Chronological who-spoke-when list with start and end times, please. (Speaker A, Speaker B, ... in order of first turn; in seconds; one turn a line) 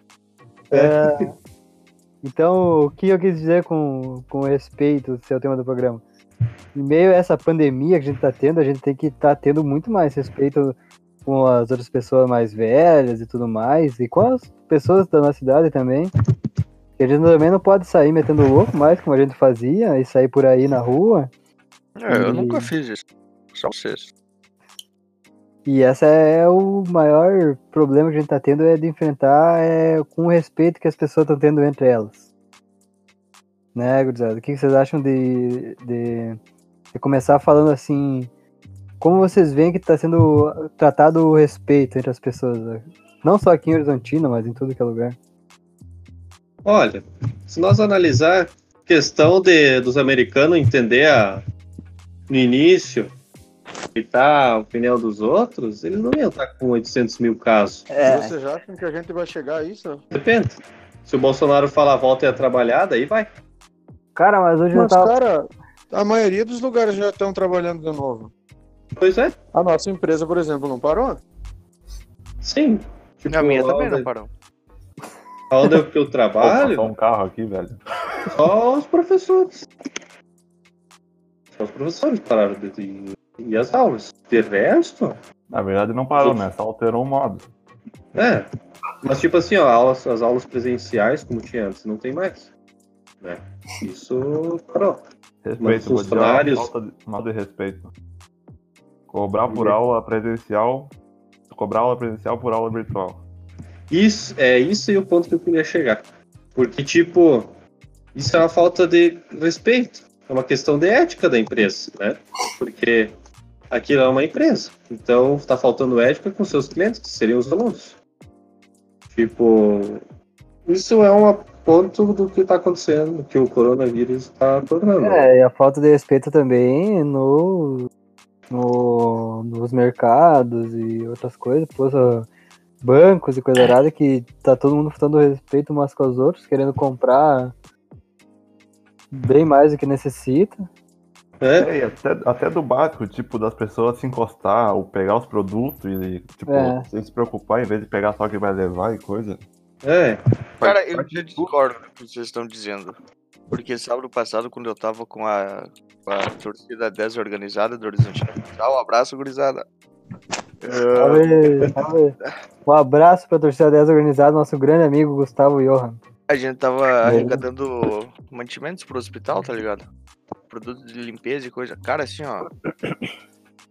Speaker A: 0.7-1.1
Speaker B: 0.7-1.3
Speaker B: 2.2-6.0
Speaker B: 6.7-10.7
Speaker B: 11.2-16.1
Speaker B: 17.0-21.3
Speaker C: 22.0-24.1
Speaker B: 22.1-22.7
Speaker B: 25.6-32.2
Speaker B: 33.7-36.4
Speaker B: 36.9-38.3
Speaker B: 39.0-45.1
Speaker A: 46.6-51.4
Speaker A: 52.3-53.1
Speaker A: 53.9-57.9
Speaker B: 57.9-58.3
Speaker D: 58.0-60.0
Speaker A: 60.1-63.3
Speaker B: 64.2-65.1
Speaker D: 64.7-68.3
Speaker A: 69.0-69.3
Speaker D: 69.5-71.2
Speaker A: 72.4-74.1
Speaker C: 73.3-74.3
Speaker A: 75.5-76.9
Speaker E: 76.4-77.8
Speaker A: 78.3-79.6
Speaker A: 81.5-85.2
Speaker E: 85.5-87.5
Speaker A: 86.2-86.4
Speaker A: 88.1-88.5
Speaker A: 89.0-92.5
Speaker A: 93.2-95.0
Speaker E: 95.4-97.9
Speaker A: 95.6-96.7
Speaker E: 99.1-100.9
Speaker A: 99.5-99.7
Speaker E: 101.5-103.2
Speaker A: 103.9-106.0
Speaker A: 106.5-107.5
Speaker A: 108.1-113.1
Speaker A: 113.7-118.0
Speaker A: 119.1-120.0
Speaker A: 120.7-125.3
Speaker B: 125.0-127.9
Speaker B: 128.5-132.3
Speaker B: 132.8-137.5
Speaker B: 139.1-140.6
Speaker A: 141.4-141.7
Speaker E: 141.6-149.4
Speaker B: 146.5-146.8
Speaker A: 149.8-150.2
Speaker C: 150.6-152.9
Speaker E: 150.6-151.5
Speaker C: 153.5-159.6
Speaker C: 160.6-161.3
Speaker B: 160.9-162.1
Speaker B: 162.7-166.0
Speaker C: 166.3-169.8
Speaker C: 170.5-172.5